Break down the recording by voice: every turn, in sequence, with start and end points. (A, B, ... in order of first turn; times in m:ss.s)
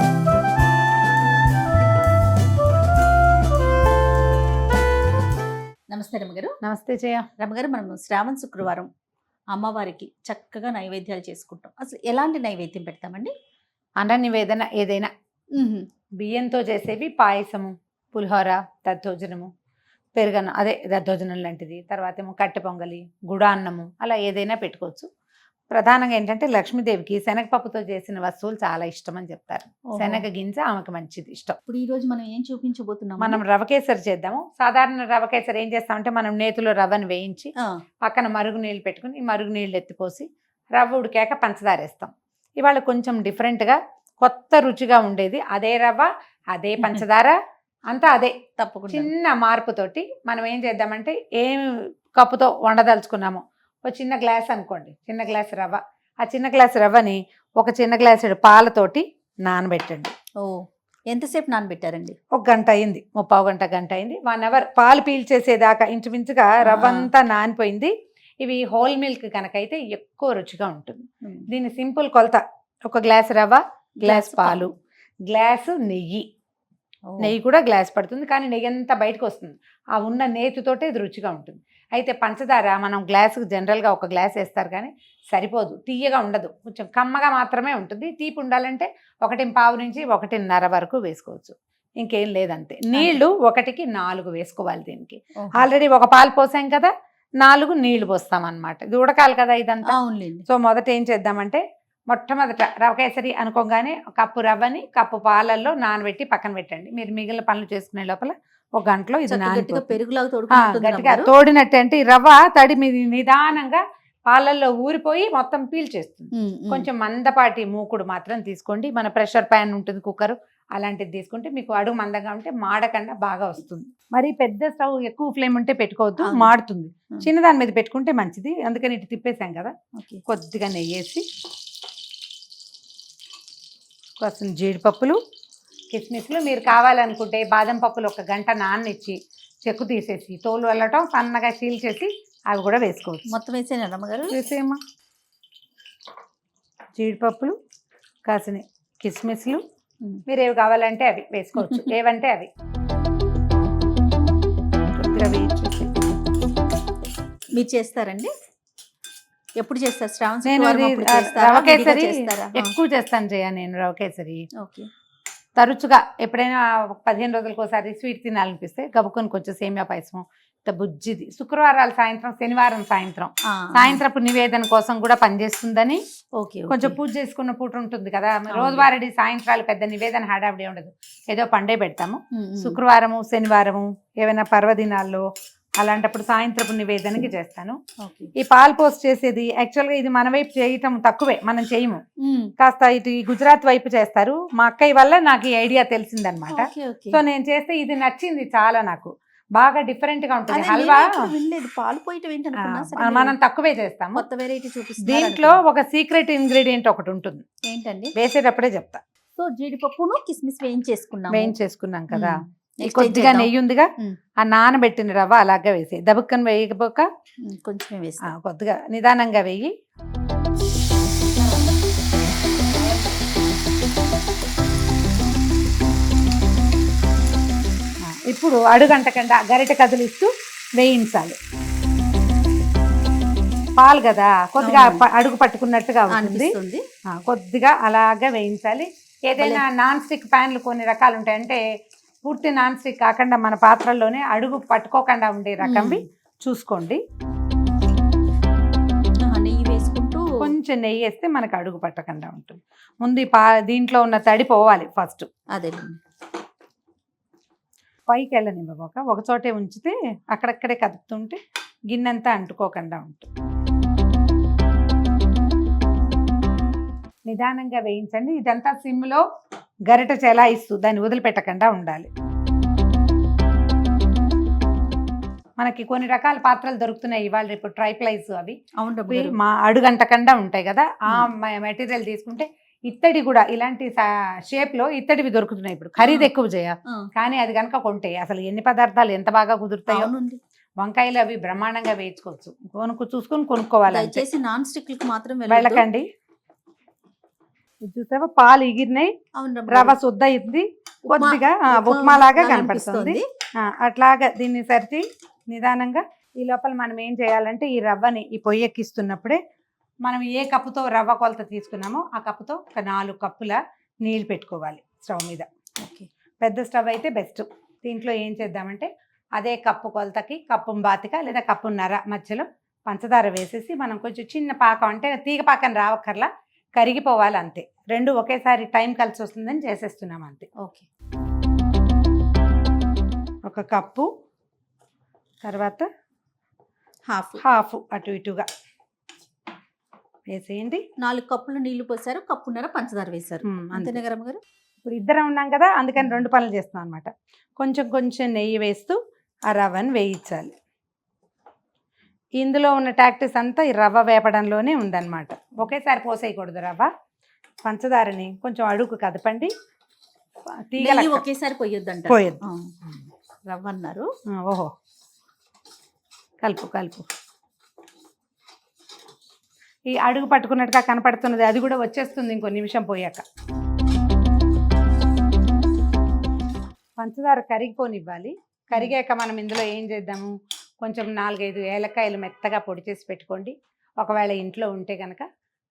0:05.9-0:06.5 A
0:06.6-0:07.3 B
0:07.4-0:08.9 A
0:09.5-0:13.3 A
0:14.0-0:15.1 B
0:15.6-0:15.8 A
0:16.2-0:19.5 B
0:20.1-0:25.1 B
0:25.7-0:31.6 B
0:29.9-0:30.2 A
0:31.6-0:33.4 A
0:33.2-0:37.5 B
0:38.0-0:47.4 B
0:47.9-0:48.3 B
0:48.6-0:49.1 A
0:48.9-1:00.1 B
1:00.4-1:02.2 A
1:02.3-1:14.7 B
1:06.6-1:07.1 A
1:14.0-1:14.7 A
1:15.3-1:16.2 B
1:17.1-1:17.3 A
1:17.2-1:36.9 B
1:32.9-1:33.2 A
1:35.4-1:35.7 A
1:37.4-1:40.0 B
1:39.8-1:40.4 A
1:40.5-1:50.0 B
1:49.3-1:51.3 A
1:50.5-2:09.7 B
1:56.4-1:56.9 A
2:06.2-2:06.5 A
2:10.0-2:10.2 A
2:10.3-2:11.2 B
2:14.2-2:15.2 B
2:15.9-2:23.3 B
2:23.3-2:24.4 A
2:24.3-2:24.8 B
2:27.0-2:27.5 B
2:28.3-2:29.6 B
2:30.3-2:32.5 B
2:31.6-2:31.9 A
2:34.9-2:35.9 B
2:37.5-2:38.3 A
2:39.6-2:42.7 A
2:40.4-2:44.4 B
2:44.6-2:44.9 A
2:45.6-2:56.0 B
2:53.5-2:54.0 A
2:56.4-2:57.0 A
2:56.7-3:05.2 B
2:58.5-2:58.9 A
3:02.3-3:02.8 A
3:05.8-3:07.8 B
3:08.0-3:08.3 A
3:08.4-3:12.0 B
3:12.2-3:12.5 A
3:12.6-3:21.1 B
3:16.5-3:17.2 A
3:20.5-3:23.4 A
3:22.6-3:24.2 B
3:24.1-3:25.6 A
3:25.0-3:27.4 B
3:27.7-3:28.1 A
3:28.2-3:29.0 B
3:29.4-3:31.6 A
3:31.3-3:33.9 B
3:32.1-3:34.2 A
3:34.4-3:37.1 B
3:37.5-3:38.3 A
3:38.3-3:39.7 B
3:41.3-3:41.8 A
3:42.6-3:43.2 A
3:48.0-3:51.4 B
3:53.8-3:56.5 B
3:54.6-3:55.0 A
3:56.1-3:56.8 A
3:57.1-4:01.6 B
3:59.4-3:59.6 A
4:02.2-4:07.0 B
4:05.6-4:06.0 A
4:09.2-4:10.5 A
4:10.4-4:15.3 B
4:15.5-4:15.9 A
4:18.1-4:21.4 B
4:21.9-4:23.3 B
4:27.3-4:29.2 B
4:29.9-4:32.1 B
4:35.6-4:38.6 B
4:38.8-4:39.3 A
4:39.1-4:50.1 B
4:46.0-4:46.3 A
4:49.9-4:50.4 A
4:50.8-4:54.2 B
4:53.9-4:55.9 A
4:55.5-4:56.0 B
4:57.8-4:59.1 B
4:59.4-5:00.0 A
4:59.7-5:09.4 B
5:01.1-5:03.2 A
5:10.0-5:15.4 B
5:15.8-5:16.1 A
5:16.4-5:30.5 B
5:30.6-5:30.8 A
5:33.5-5:34.1 B
5:35.4-5:35.9 B
5:37.1-5:37.4 A
5:37.4-5:38.4 B
5:40.3-5:40.8 B
5:41.0-5:44.4 A
5:43.4-5:44.0 B
5:44.8-5:49.0 B
5:49.5-5:50.5 B
5:52.4-5:56.9 B
5:57.6-5:59.5 B
6:00.7-6:01.2 B
6:00.8-6:02.7 A
6:02.1-6:02.4 B
6:03.5-6:04.0 A
6:04.3-6:04.7 B
6:06.4-6:07.0 B
6:09.9-6:13.2 B
6:17.0-6:25.2 B